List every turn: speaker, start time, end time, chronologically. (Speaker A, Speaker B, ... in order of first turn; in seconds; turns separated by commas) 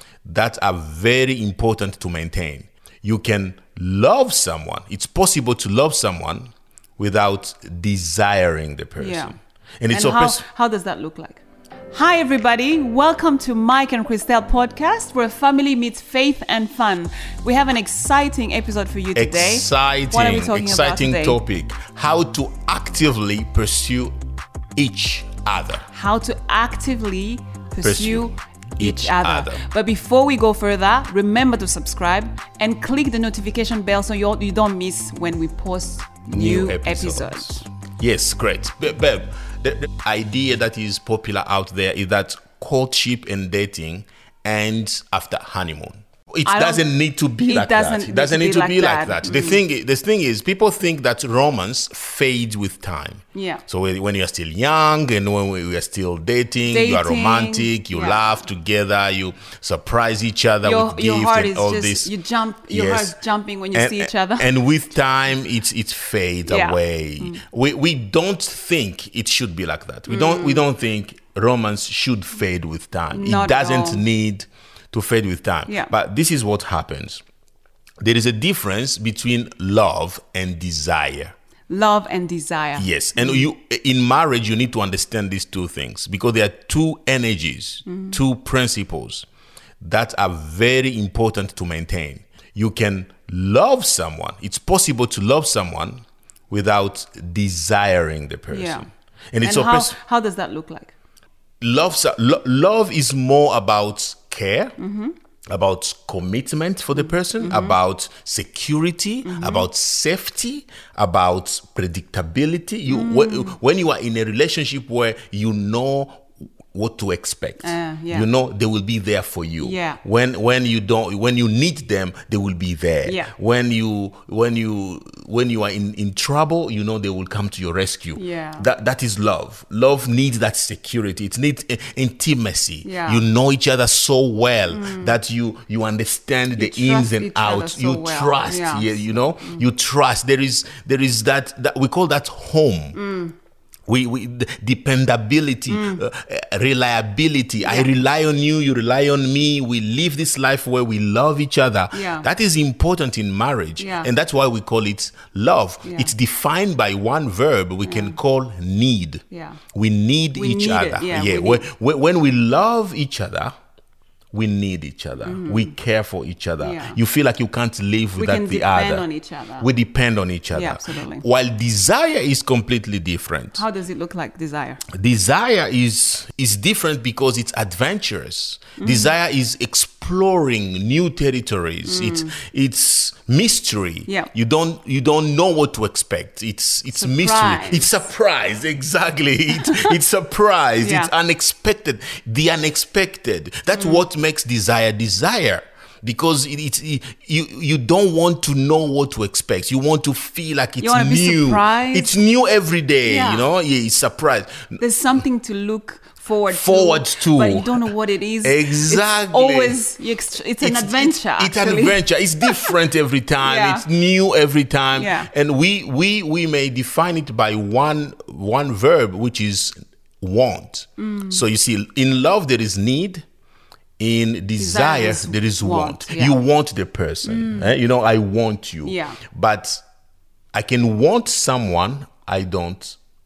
Speaker A: 0.2-10.4, Speaker B: 9.0-9.3, Speaker B: 9.9-21.4, Speaker A: 19.1-24.1, Speaker A: 24.8-25.8, Speaker B: 25.9-37.6, Speaker A: 27.8-29.6, Speaker A: 36.3-62.1, Speaker B: 46.5-46.9, Speaker B: 47.5-49.6, Speaker B: 53.3-53.6, Speaker B: 56.7-58.4, Speaker B: 60.6-64.7, Speaker A: 62.7-63.1, Speaker A: 63.7-77.2, Speaker B: 66.5-67.4, Speaker B: 70.1-70.6, Speaker B: 73.1-74.0, Speaker A: 78.0-81.3, Speaker B: 81.7-83.5, Speaker A: 82.8-89.2, Speaker B: 87.9-88.2, Speaker A: 89.8-99.9, Speaker B: 98.5-98.9, Speaker B: 99.4-100.9, Speaker A: 101.6-104.8, Speaker B: 104.8-105.1, Speaker A: 105.5-143.0, Speaker B: 107.4-107.8, Speaker B: 109.2-109.7, Speaker B: 112.9-113.5, Speaker B: 117.6-118.3, Speaker B: 119.6-120.0, Speaker B: 123.0-123.3, Speaker B: 128.2-128.7, Speaker B: 132.8-133.2, Speaker B: 134.7-135.1, Speaker B: 136.6-139.6, Speaker B: 142.9-143.3, Speaker A: 143.9-163.5, Speaker B: 145.7-146.0, Speaker B: 147.6-147.9, Speaker B: 151.9-152.3, Speaker B: 153.8-154.1, Speaker B: 155.8-156.1, Speaker B: 157.8-158.2, Speaker B: 159.3-159.6, Speaker B: 160.3-161.6, Speaker A: 164.3-169.0, Speaker B: 165.2-165.7, Speaker B: 166.6-167.0, Speaker B: 168.2-169.7, Speaker A: 169.6-173.6, Speaker B: 170.5-171.2, Speaker B: 173.6-174.8, Speaker A: 174.9-204.8, Speaker B: 178.8-179.1, Speaker B: 181.8-182.3, Speaker B: 186.9-188.1, Speaker B: 189.5-189.9, Speaker B: 190.8-191.1, Speaker B: 193.7-194.0, Speaker B: 200.8-202.2, Speaker B: 203.0-203.4, Speaker B: 204.8-212.7, Speaker A: 206.5-207.9, Speaker A: 208.4-209.8, Speaker A: 210.6-223.2, Speaker B: 213.4-213.8, Speaker B: 214.9-215.3, Speaker B: 221.0-221.4, Speaker A: 224.0-229.8, Speaker B: 224.6-226.4, Speaker B: 227.2-227.7, Speaker B: 228.8-229.2, Speaker A: 230.5-233.0